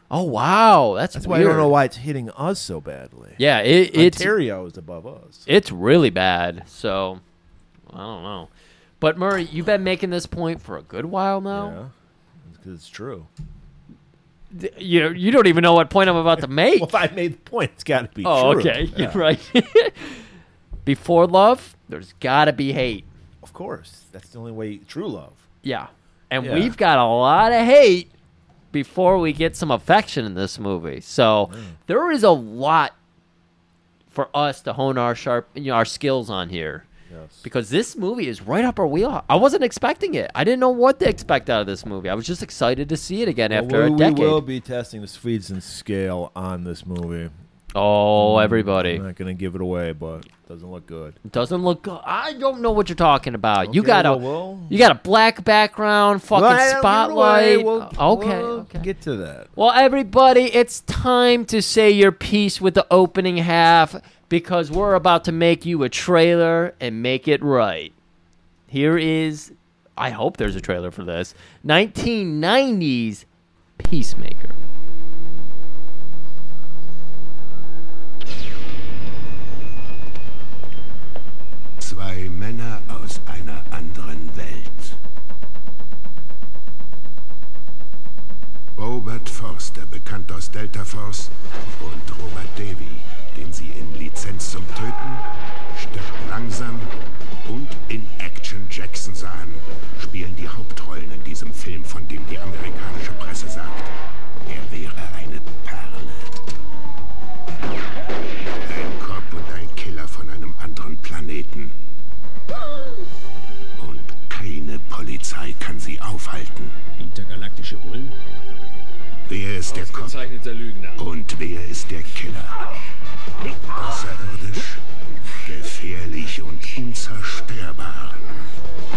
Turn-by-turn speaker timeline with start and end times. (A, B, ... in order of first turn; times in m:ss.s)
0:00.1-0:01.7 A
0:01.2-0:03.4 B
0:03.4-0:04.3 A
0:03.9-0:05.5 B
0:05.5-0:07.2 A
0:07.9-0:08.5 A
0:09.0-0:11.8 A
0:11.5-0:11.9 B
0:12.4-0:13.3 B
0:14.5-0:17.0 A
0:16.8-0:19.2 B
0:18.2-0:20.2 A
0:20.9-0:23.1 A
0:23.4-0:25.4 B
0:25.6-0:28.1 A
0:26.4-0:26.8 B
0:28.7-0:32.9 A
0:31.5-0:31.8 B
0:34.1-0:36.9 A
0:37.1-0:37.4 B
0:37.4-0:44.4 A
0:43.5-0:47.3 B
0:47.8-0:49.0 A
0:48.2-0:51.2 B
0:51.3-0:58.9 A
0:53.6-0:54.8 B
0:56.3-0:59.5 B
0:59.6-1:07.9 A
1:08.7-1:13.2 A
1:13.8-1:14.6 A
1:21.8-1:25.0 C
1:28.8-1:36.9 C
1:37.4-1:43.9 C
1:44.5-1:46.4 C
1:48.6-1:51.8 C
1:53.8-1:56.8 C
1:57.0-1:58.1 D
1:59.3-2:00.3 C
2:00.0-2:01.0 D
2:01.0-2:02.6 C
2:03.7-2:08.3 C